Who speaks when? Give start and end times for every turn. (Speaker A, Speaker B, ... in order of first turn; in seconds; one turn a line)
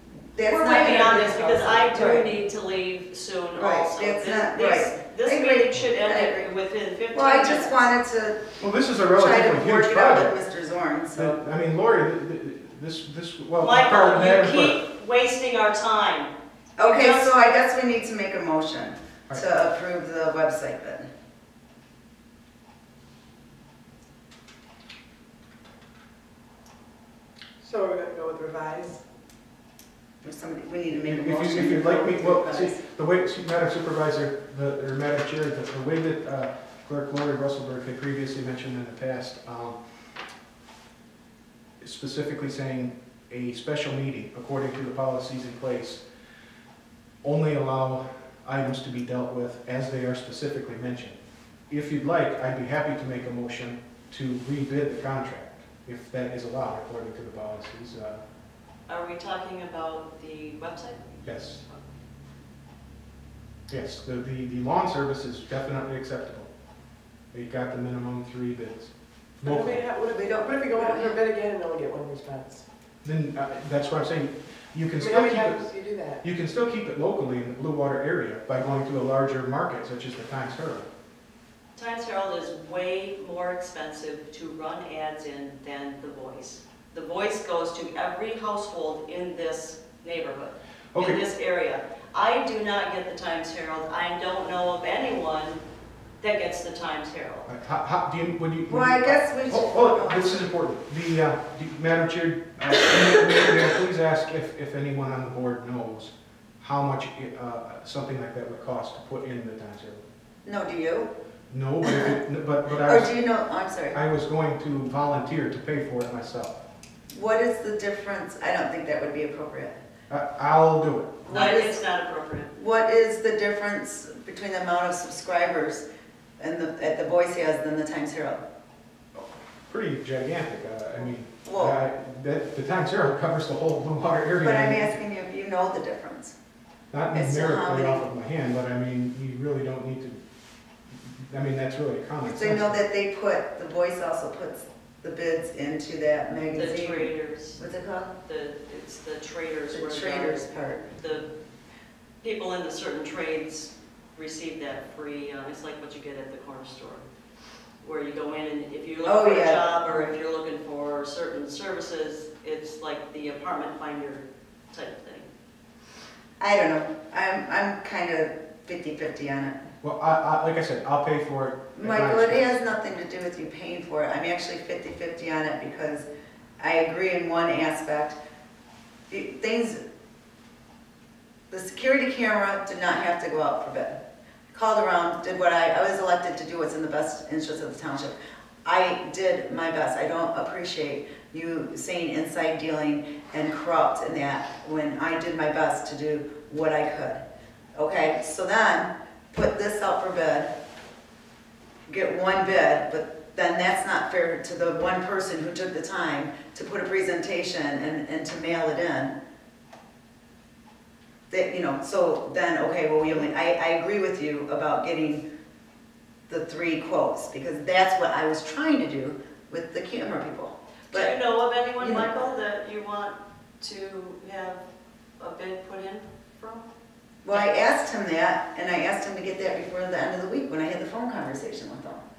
Speaker A: 0.3-2.3
Speaker B: 0.5-7.9
Speaker A: 3.6-6.5
Speaker A: 7.1-8.6
Speaker C: 8.6-10.4
Speaker A: 9.1-11.4
Speaker C: 11.2-14.8
Speaker B: 13.6-17.4
Speaker A: 16.8-21.1
Speaker D: 27.6-29.0
Speaker A: 30.2-32.8
Speaker C: 31.0-39.8
Speaker C: 41.8-46.0
Speaker C: 47.2-51.2
Speaker C: 51.7-58.2
Speaker B: 58.9-61.9
Speaker C: 61.2-61.6
Speaker C: 63.7-66.5
Speaker C: 67.3-68.9
Speaker C: 69.4-69.8
Speaker D: 69.4-72.7
Speaker A: 70.2-71.1
Speaker C: 73.0-75.7
Speaker D: 75.0-76.2
Speaker C: 76.2-80.9
Speaker B: 81.8-95.6
Speaker C: 90.9-91.2
Speaker B: 96.2-97.5
Speaker C: 97.5-110.0
Speaker A: 98.7-100.5
Speaker A: 110.5-111.1
Speaker C: 111.5-113.1
Speaker A: 112.8-114.0
Speaker C: 113.9-116.5
Speaker A: 117.1-119.8
Speaker C: 120.1-121.2
Speaker A: 121.2-121.8
Speaker B: 121.3-122.5
Speaker A: 122.5-125.8
Speaker A: 126.4-128.4
Speaker C: 129.2-135.0
Speaker A: 131.4-131.8
Speaker A: 134.4-136.3
Speaker C: 136.9-140.2
Speaker A: 137.1-138.0
Speaker C: 140.9-142.8
Speaker A: 142.3-148.1
Speaker B: 146.5-147.6
Speaker B: 148.2-151.3
Speaker A: 149.7-150.8
Speaker B: 152.2-157.0
Speaker B: 157.8-165.3
Speaker A: 159.0-160.1
Speaker A: 166.4-169.6
Speaker C: 169.8-172.6
Speaker A: 171.8-176.1
Speaker A: 176.6-178.2
Speaker A: 179.1-179.8
Speaker A: 181.5-184.0
Speaker A: 184.5-197.2
Speaker A: 197.8-200.5
Speaker A: 201.9-209.2
Speaker A: 211.3-215.2
Speaker A: 216.3-221.1
Speaker B: 220.9-224.6
Speaker A: 221.8-222.1
Speaker B: 225.2-226.7
Speaker A: 227.2-232.0